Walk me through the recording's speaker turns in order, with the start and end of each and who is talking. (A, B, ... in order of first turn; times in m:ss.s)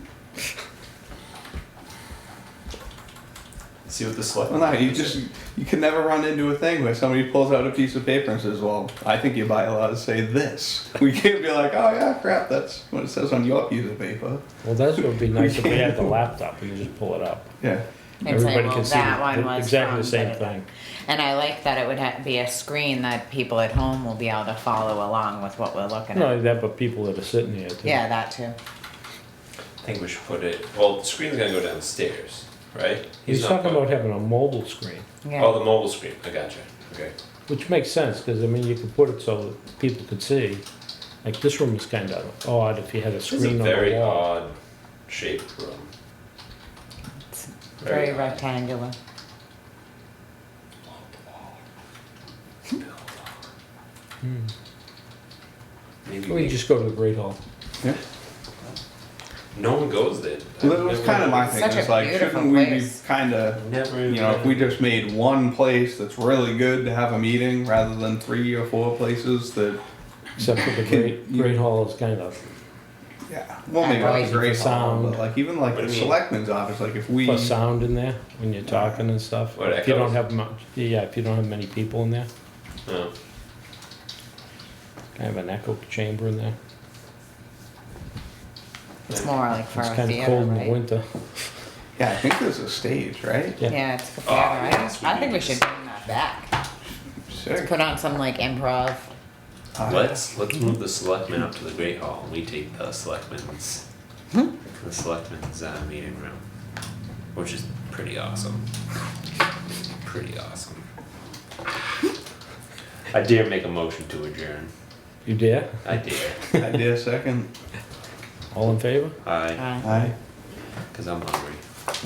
0:03.8-0:05.2 A
0:04.5-0:14.4 B
0:14.6-0:17.5 C
0:15.0-0:16.2 B
0:18.2-0:26.4 D
0:18.3-0:20.6 C
0:26.1-0:28.0 C
0:27.8-0:28.6 D
0:29.8-0:33.9 A
0:33.3-0:35.1 C
0:35.2-0:35.6 D
0:35.4-0:37.1 A
0:37.5-0:40.6 C
0:41.2-0:44.4 C
0:43.3-0:44.6 A
0:45.1-0:45.9 A
0:47.3-0:49.0 D
0:47.8-0:48.4 A
0:52.8-0:53.1 A
0:56.0-0:56.6 A
0:56.3-0:57.4 C
0:59.5-1:01.9 A
1:00.6-1:09.8 B
1:01.4-1:03.0 D
1:03.6-1:04.8 A
1:10.4-1:12.4 C
1:10.8-1:11.5 B
1:13.3-1:17.6 B
1:13.8-1:14.6 D
1:14.0-1:15.2 C
1:15.7-1:16.2 A
1:17.2-1:22.3 C
1:18.7-1:19.0 B
1:19.6-1:20.2 A
1:22.9-1:23.1 A
1:25.2-1:26.6 C
1:29.1-1:30.8 D
1:29.6-1:31.5 C
1:32.0-1:33.6 B
1:33.7-1:36.5 D
1:34.2-1:35.6 A
1:37.3-1:37.8 B
1:37.6-1:39.1 D
1:39.8-1:40.2 B
1:39.8-1:43.8 A
1:44.7-1:46.4 A
1:47.3-1:48.6 A
1:50.0-1:50.8 A
1:53.1-1:54.7 A
1:55.3-1:55.8 C
1:55.8-1:56.4 A
1:56.6-1:57.5 B
1:58.5-1:59.2 C
1:59.2-2:00.1 A
1:59.6-1:59.9 D
1:59.8-2:00.1 B
2:00.9-2:01.6 A